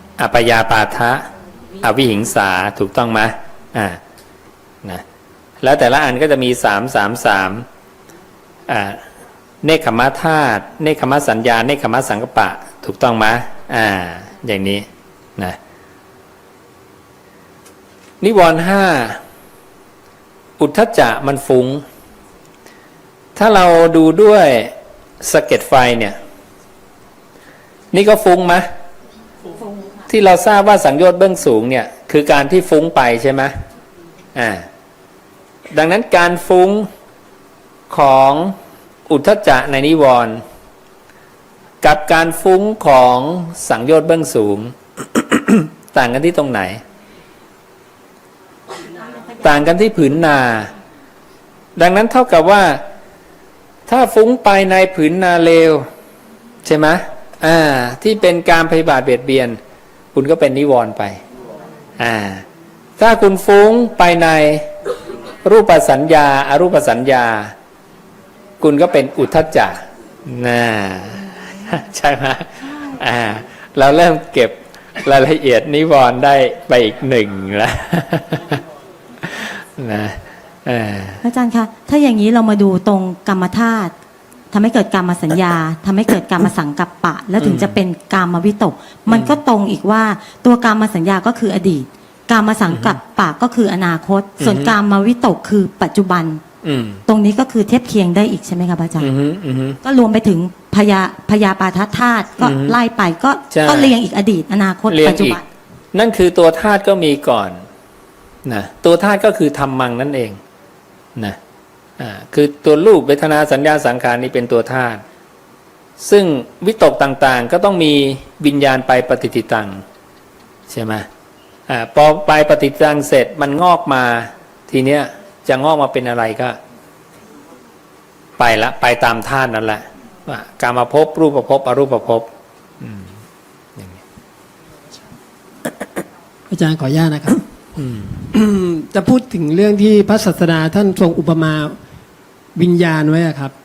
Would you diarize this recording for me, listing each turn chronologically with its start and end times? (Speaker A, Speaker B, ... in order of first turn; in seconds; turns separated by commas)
Speaker A: 0.2-1.2, Speaker A: 1.8-4.0, Speaker A: 5.6-7.6, Speaker A: 8.7-9.0, Speaker A: 9.6-14.8, Speaker A: 18.2-19.2, Speaker A: 20.6-21.8, Speaker A: 23.4-26.1, Speaker A: 27.9-28.6, Speaker A: 30.1-33.5, Speaker A: 34.3-34.6, Speaker A: 35.7-36.9, Speaker A: 37.9-38.5, Speaker A: 39.1-40.4, Speaker A: 41.8-46.8, Speaker A: 49.4-50.7, Speaker A: 51.8-52.8, Speaker A: 53.9-55.8, Speaker A: 56.6-59.6, Speaker A: 60.1-61.2, Speaker A: 62.0-62.4, Speaker A: 63.0-64.7, Speaker A: 65.4-67.5, Speaker A: 68.6-78.6, Speaker A: 79.2-81.2, Speaker B: 81.2-83.9, Speaker B: 84.5-96.4, Speaker A: 87.4-87.8, Speaker A: 89.1-89.4, Speaker A: 92.7-93.0, Speaker A: 94.4-94.7, Speaker A: 96.6-97.0, Speaker B: 97.1-99.1, Speaker A: 99.0-99.8, Speaker B: 99.8-105.4, Speaker A: 102.4-102.8, Speaker A: 103.5-103.9, Speaker A: 104.9-105.4, Speaker A: 105.9-107.6, Speaker A: 108.5-110.4, Speaker A: 112.0-115.0, Speaker A: 116.0-119.8, Speaker A: 120.7-121.1, Speaker A: 121.7-126.6, Speaker A: 128.4-132.3, Speaker A: 132.8-133.1, Speaker C: 136.5-137.4, Speaker A: 137.8-138.3, Speaker C: 138.3-141.8, Speaker C: 142.5-143.5